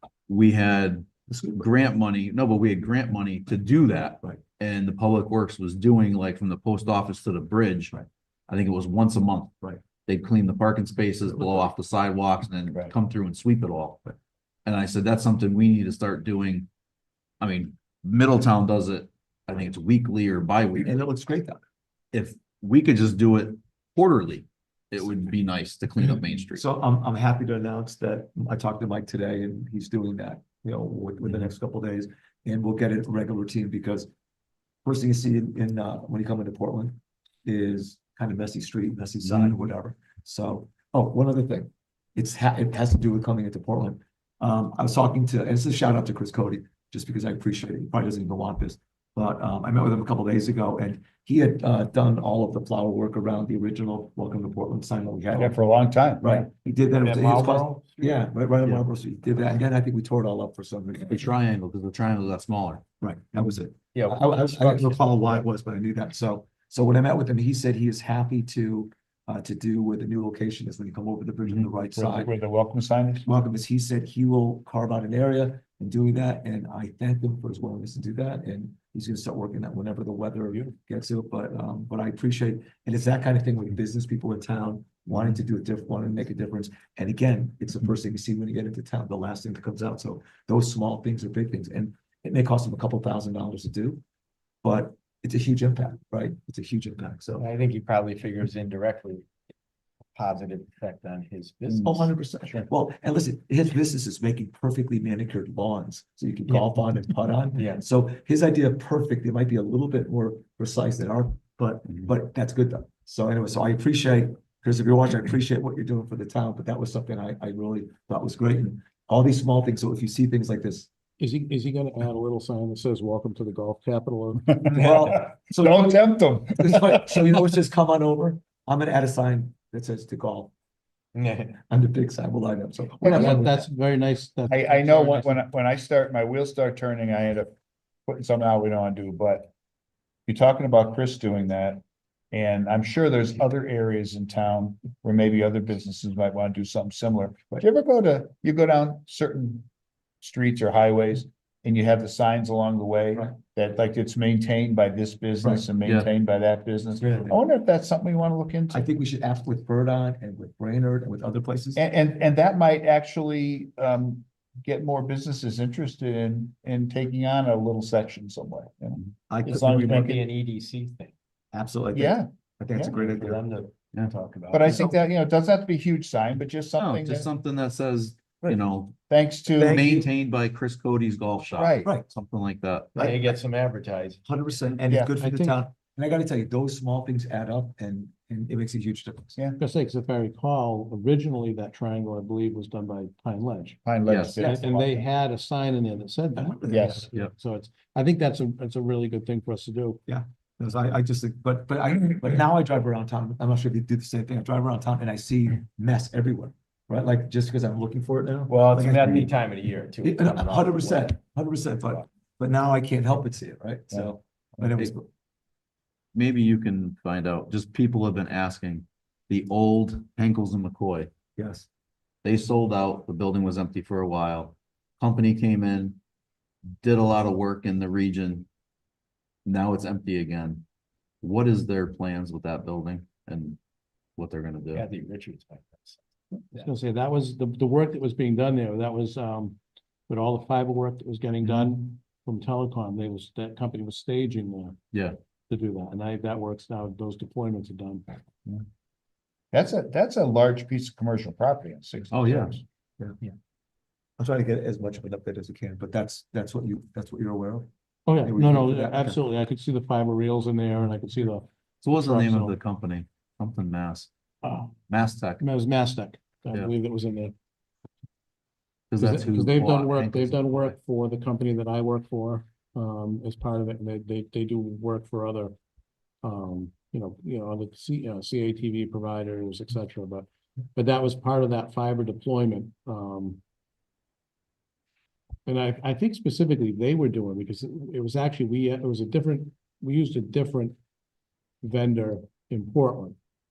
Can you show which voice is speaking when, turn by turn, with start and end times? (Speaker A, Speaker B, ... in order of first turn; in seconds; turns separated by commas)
Speaker A: 0.3-7.9, Speaker B: 1.3-1.6, Speaker A: 8.5-9.5, Speaker A: 10.0-14.0, Speaker B: 11.3-11.7, Speaker A: 14.7-16.7, Speaker A: 17.4-21.0, Speaker B: 20.7-21.6, Speaker A: 22.1-26.6, Speaker B: 26.5-34.1, Speaker B: 34.8-55.6, Speaker C: 55.3-56.4, Speaker B: 56.2-61.3, Speaker D: 57.2-58.1, Speaker A: 61.0-62.8, Speaker B: 63.0-72.3, Speaker D: 64.0-65.0, Speaker C: 71.9-73.3, Speaker B: 73.2-94.0, Speaker B: 94.6-97.5, Speaker D: 97.4-99.2, Speaker D: 100.1-102.0, Speaker B: 101.8-120.9, Speaker E: 121.2-124.6, Speaker C: 124.5-127.2, Speaker B: 124.7-130.5, Speaker D: 131.1-131.6, Speaker B: 131.7-133.7, Speaker C: 133.0-133.5, Speaker E: 133.0-135.4, Speaker C: 134.5-137.5, Speaker C: 138.1-139.5, Speaker C: 140.2-149.7, Speaker C: 150.2-158.8, Speaker A: 155.8-156.1, Speaker B: 157.0-157.4, Speaker B: 158.7-161.8, Speaker C: 161.8-170.2, Speaker B: 169.3-170.2, Speaker D: 169.6-171.1, Speaker B: 171.5-173.4, Speaker C: 171.9-172.9, Speaker D: 173.1-174.7, Speaker C: 174.5-177.3, Speaker A: 176.8-178.9, Speaker C: 179.1-179.8, Speaker B: 179.5-180.1, Speaker A: 179.6-183.2, Speaker C: 181.5-181.9, Speaker B: 181.8-182.1, Speaker B: 182.9-183.3, Speaker D: 183.0-184.2, Speaker B: 184.2-189.3, Speaker E: 185.2-185.6, Speaker E: 189.6-193.8, Speaker C: 193.8-194.5, Speaker A: 194.1-194.4, Speaker B: 194.4-195.0, Speaker E: 194.4-200.0, Speaker B: 196.3-197.1, Speaker C: 196.7-197.1, Speaker B: 200.1-209.3, Speaker C: 208.5-209.3, Speaker D: 209.3-211.1, Speaker B: 210.0-215.1, Speaker C: 213.9-214.7, Speaker A: 216.1-221.1, Speaker B: 221.4-221.7, Speaker A: 222.2-226.0, Speaker A: 226.8-228.5, Speaker A: 229.4-230.6, Speaker A: 231.2-233.6, Speaker A: 234.2-234.8, Speaker D: 234.7-236.0, Speaker E: 236.5-244.8, Speaker E: 245.5-248.2, Speaker C: 249.5-252.6, Speaker A: 252.1-252.6, Speaker B: 254.2-259.2, Speaker E: 258.1-262.5, Speaker A: 261.8-264.1, Speaker E: 264.4-264.7, Speaker A: 264.9-265.4, Speaker E: 265.4-267.3, Speaker A: 268.9-270.7, Speaker E: 268.9-275.6, Speaker E: 276.2-283.4, Speaker E: 285.4-290.8, Speaker E: 291.6-293.2